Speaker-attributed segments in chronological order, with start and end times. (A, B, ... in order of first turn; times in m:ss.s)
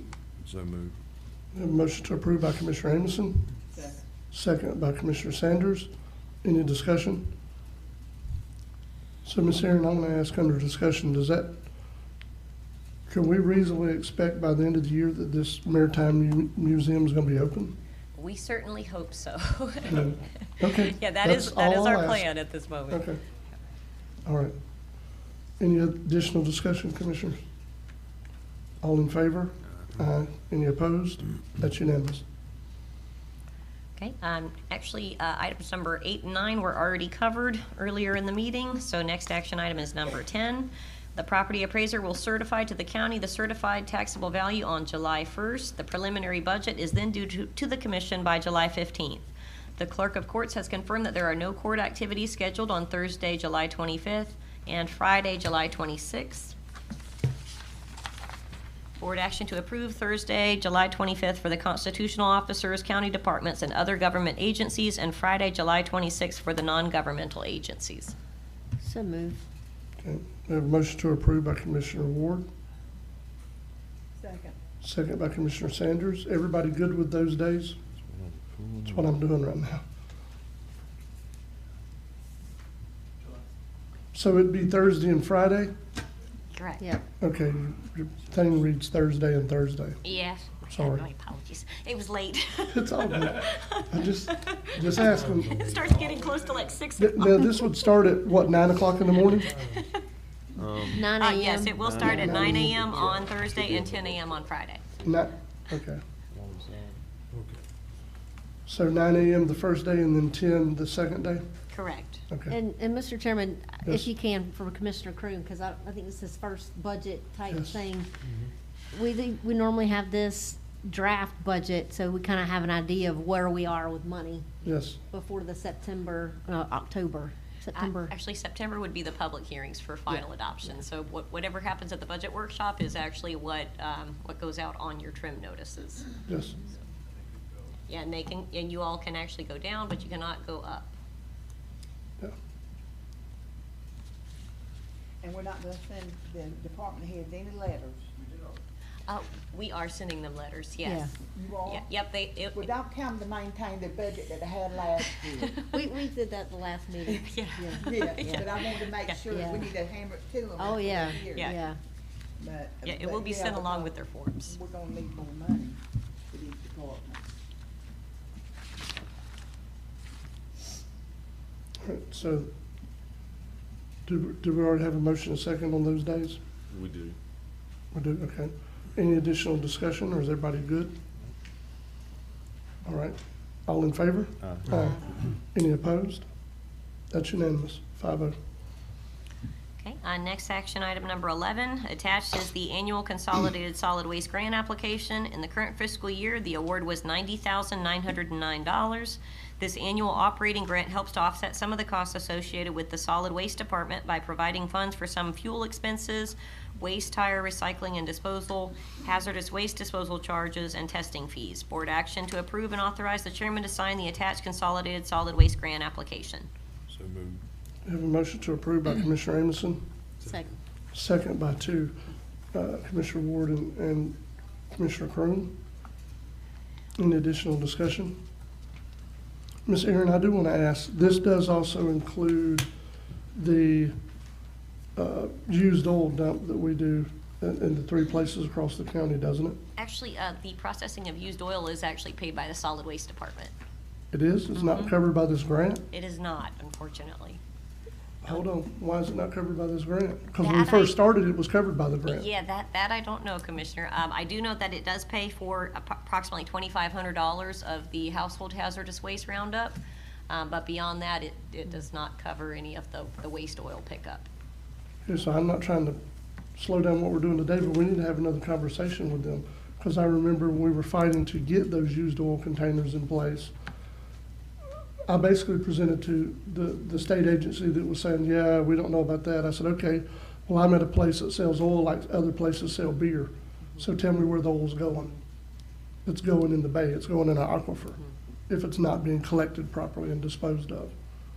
0:00.4-0:01.0 A
0:01.5-0:03.5 B
0:03.7-0:04.0 C
0:04.3-0:05.9 B
0:06.4-0:07.3 B
0:09.2-0:11.6 B
0:13.1-0:17.7 B
0:18.1-0:20.3 D
0:19.8-0:22.3 B
0:20.8-0:23.0 D
0:22.9-0:23.2 B
0:24.2-0:24.5 B
0:25.6-0:27.4 B
0:28.8-0:32.2 B
0:34.0-0:56.5 D
0:59.0-1:08.2 D
1:08.8-1:09.4 E
1:10.0-1:12.5 B
1:14.2-1:14.6 C
1:14.8-1:17.8 B
1:17.9-1:19.2 A
1:18.9-1:19.8 B
1:24.1-1:25.7 B
1:26.5-1:26.8 D
1:27.2-1:30.0 B
1:30.0-1:37.7 D
1:30.7-1:31.0 B
1:32.7-1:35.7 B
1:37.0-1:39.6 B
1:39.3-1:40.0 D
1:40.6-1:41.1 A
1:40.9-1:42.7 E
1:41.2-1:44.8 D
1:41.7-1:44.3 A
1:42.0-1:42.8 B
1:45.0-1:46.0 B
1:46.3-1:47.0 A
1:48.7-1:51.4 B
1:51.7-1:52.2 D
1:52.3-1:52.6 B
1:52.5-1:58.1 E
1:57.5-1:57.8 B
1:58.9-2:04.5 E
2:04.6-2:05.0 B
2:05.1-2:08.1 E
2:07.7-2:16.1 D
2:16.3-2:16.6 B
2:17.9-2:20.9 D
2:25.2-2:28.1 C
2:29.1-2:32.7 D
2:30.8-2:31.1 E
2:31.3-2:31.9 C
2:32.5-2:35.6 C
2:35.7-2:38.4 E
2:37.2-2:39.2 D
2:37.8-2:41.6 C
2:39.3-2:39.7 E
2:40.6-2:41.8 E
2:41.2-2:41.6 D
2:42.4-2:47.2 C
2:42.8-2:44.6 D
2:51.8-2:52.5 B
2:54.0-2:56.4 B
2:56.7-2:57.2 A
2:57.9-3:00.9 B
3:02.8-3:06.3 B
3:04.4-3:04.7 A
3:07.1-3:08.4 B
3:09.8-3:36.5 D
3:36.9-3:37.4 A
3:37.8-3:39.8 B
3:40.2-3:40.6 E
3:40.9-3:42.0 B
3:42.5-3:44.2 B
3:44.7-3:45.5 B
3:47.0-3:48.2 B
3:49.6-3:52.7 B
3:53.3-3:53.9 B
3:55.0-3:59.6 B
3:59.8-4:03.5 D
4:04.1-4:05.8 B
4:04.5-4:04.9 D
4:05.9-4:07.4 D
4:08.2-4:12.2 B
4:10.4-4:11.0 D
4:12.1-4:19.8 D
4:20.3-4:24.3 D
4:25.0-4:26.0 B
4:26.6-4:33.5 B
4:35.1-4:45.2 B
4:46.0-4:50.9 B